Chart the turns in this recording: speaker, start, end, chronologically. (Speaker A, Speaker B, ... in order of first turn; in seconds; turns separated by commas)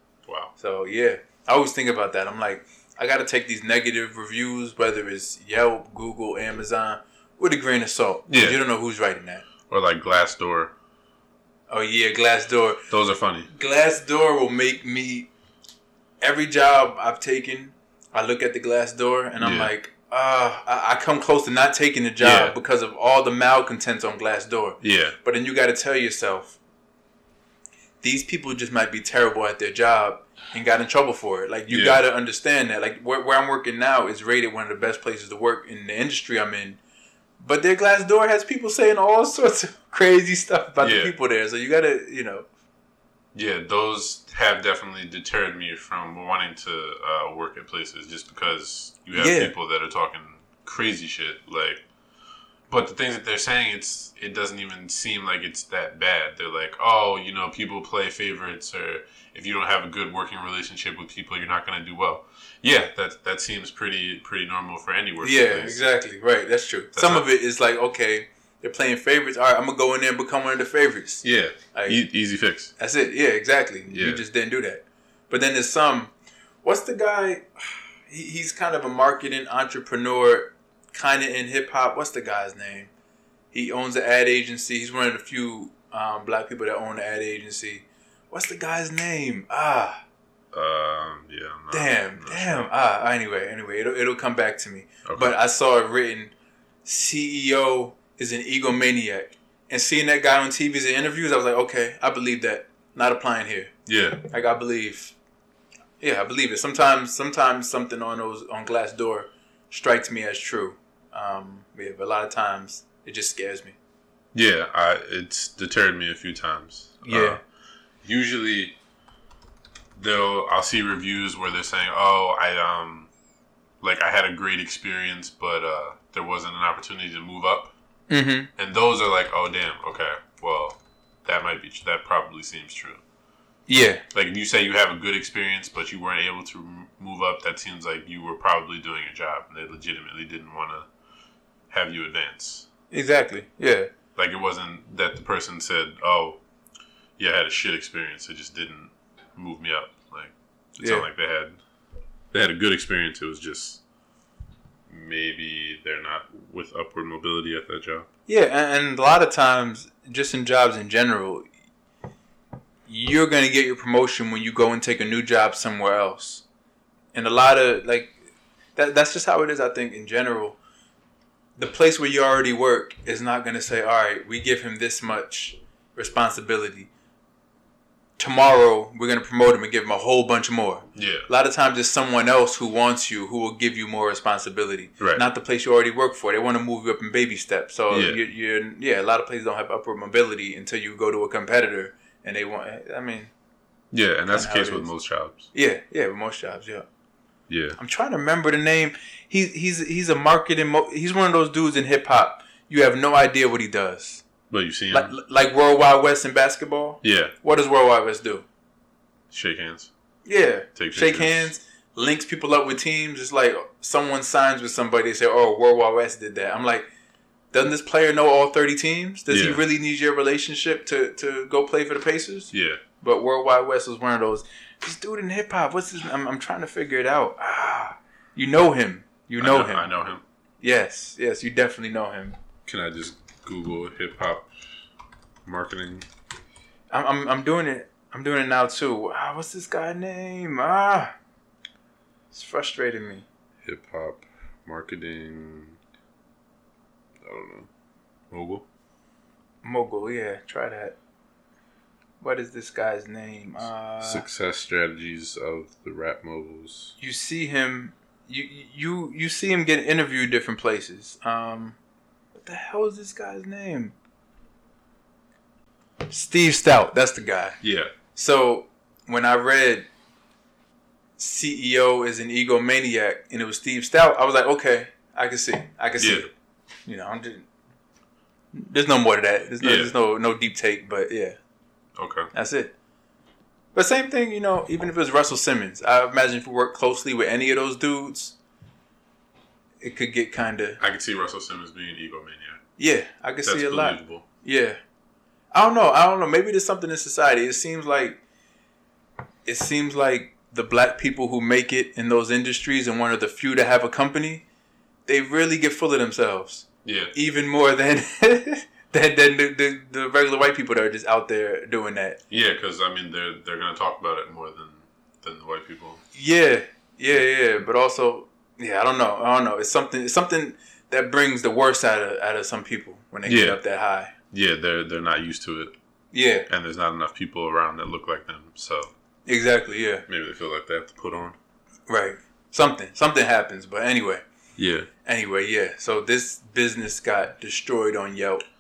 Speaker A: 0.3-0.5, Speaker B: 0.6-9.5, Speaker A: 8.3-8.6, Speaker A: 9.7-10.7, Speaker B: 11.7-12.8, Speaker A: 12.9-13.5, Speaker B: 13.5-15.3, Speaker B: 16.2-26.6, Speaker A: 19.4-19.7, Speaker A: 22.2-22.6, Speaker A: 24.8-25.2, Speaker B: 28.0-36.8, Speaker A: 31.7-32.0, Speaker B: 37.4-42.5, Speaker A: 40.8-41.1, Speaker A: 43.3-51.8, Speaker B: 49.1-49.5, Speaker A: 52.7-65.8, Speaker B: 65.2-72.0, Speaker A: 67.0-67.2, Speaker A: 71.2-72.7, Speaker B: 72.8-76.1, Speaker A: 73.9-74.2, Speaker B: 76.6-82.9, Speaker B: 83.5-90.0, Speaker A: 90.5-92.7, Speaker B: 91.7-96.3, Speaker A: 95.0-95.4, Speaker B: 96.8-103.7, Speaker A: 103.9-104.2, Speaker B: 104.3-105.2, Speaker B: 106.0-113.8, Speaker A: 114.3-117.4, Speaker B: 117.0-117.4, Speaker A: 118.0-118.8, Speaker A: 120.0-123.1, Speaker A: 123.8-127.7, Speaker B: 128.1-128.5, Speaker A: 128.6-133.0, Speaker B: 133.7-134.0, Speaker A: 134.1-140.9, Speaker A: 141.7-142.7, Speaker B: 142.9-143.9, Speaker A: 144.2-146.4, Speaker A: 147.2-151.6, Speaker B: 150.8-151.1, Speaker A: 152.3-153.8, Speaker A: 154.9-158.1, Speaker B: 158.3-161.4, Speaker B: 162.9-166.4, Speaker B: 167.1-168.1, Speaker B: 168.8-170.6, Speaker B: 171.6-176.9, Speaker B: 178.2-193.3, Speaker A: 180.9-181.3, Speaker A: 187.9-188.2, Speaker A: 193.9-195.5, Speaker B: 194.3-194.9, Speaker B: 195.5-196.9, Speaker A: 197.5-197.8, Speaker B: 197.8-204.2, Speaker A: 204.5-205.1, Speaker B: 204.9-208.4, Speaker A: 207.0-207.3, Speaker A: 209.3-209.9, Speaker B: 210.2-216.9, Speaker A: 210.8-211.5, Speaker B: 217.5-229.9, Speaker A: 219.3-219.6, Speaker A: 222.5-222.8, Speaker A: 229.4-230.2, Speaker B: 230.6-232.4, Speaker A: 232.7-234.5, Speaker A: 235.4-236.1, Speaker B: 236.9-241.1, Speaker B: 242.3-243.3, Speaker A: 243.6-245.8, Speaker A: 247.2-247.7, Speaker A: 248.3-248.7, Speaker B: 249.6-251.0, Speaker B: 252.2-254.3, Speaker A: 254.0-256.9, Speaker B: 257.0-261.8, Speaker B: 262.4-263.9, Speaker B: 266.1-267.6, Speaker A: 267.6-267.9, Speaker B: 268.1-269.9, Speaker B: 271.2-276.3, Speaker A: 276.0-276.3, Speaker B: 276.9-277.5, Speaker B: 278.5-281.4, Speaker A: 279.6-279.9, Speaker A: 282.0-282.3, Speaker B: 282.3-282.7, Speaker B: 283.7-288.4, Speaker B: 289.8-290.8, Speaker A: 290.8-292.6, Speaker B: 292.8-294.8, Speaker A: 293.4-294.2, Speaker B: 295.5-298.2, Speaker B: 299.5-304.4, Speaker B: 305.1-312.2, Speaker A: 306.9-307.1, Speaker A: 312.3-316.0, Speaker B: 316.1-324.1, Speaker A: 323.3-323.6, Speaker A: 324.3-325.8, Speaker B: 326.1-326.5, Speaker A: 326.5-328.9, Speaker B: 329.3-330.1, Speaker A: 330.1-331.4, Speaker B: 331.9-334.2, Speaker A: 334.6-334.9, Speaker B: 335.1-338.4